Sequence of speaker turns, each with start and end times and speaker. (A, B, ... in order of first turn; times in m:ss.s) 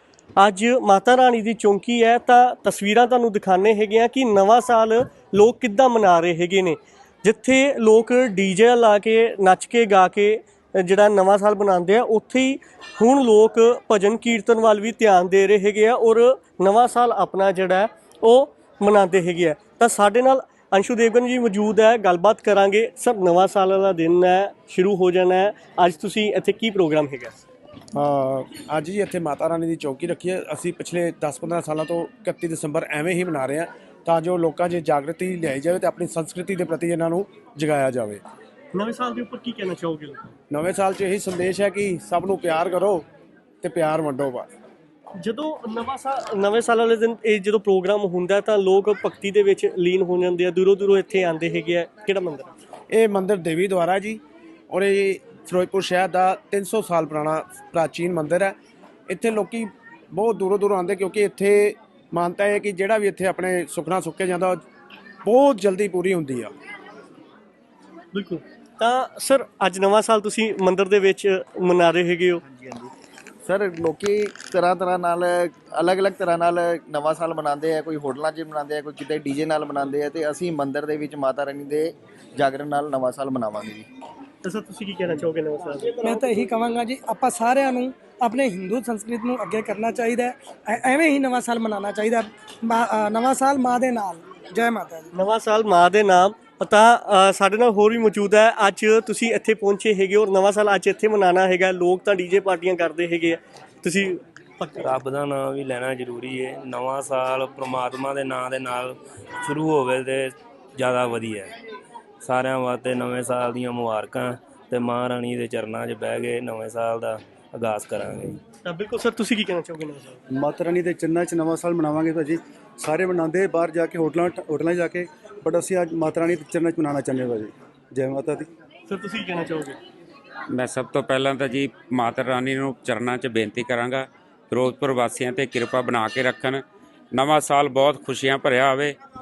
0:00.4-0:27.4 A
0:27.9-0:38.2 B
0:38.7-0:40.2 A
0:40.5-0:43.0 B
0:43.6-0:44.5 B
0:45.2-0:52.5 A
0:52.9-0:58.5 B
0:59.1-1:04.6 B
1:05.2-1:06.5 B
1:08.1-1:12.4 A
1:12.4-1:12.9 C
1:13.4-1:23.8 C
1:24.4-1:26.1 A
1:26.0-1:35.1 D
1:35.1-1:44.9 A
1:44.8-1:51.5 E
1:52.2-1:58.4 E
1:58.6-2:00.2 A
2:00.3-2:08.5 F
2:08.9-2:09.8 A
2:10.5-2:18.9 G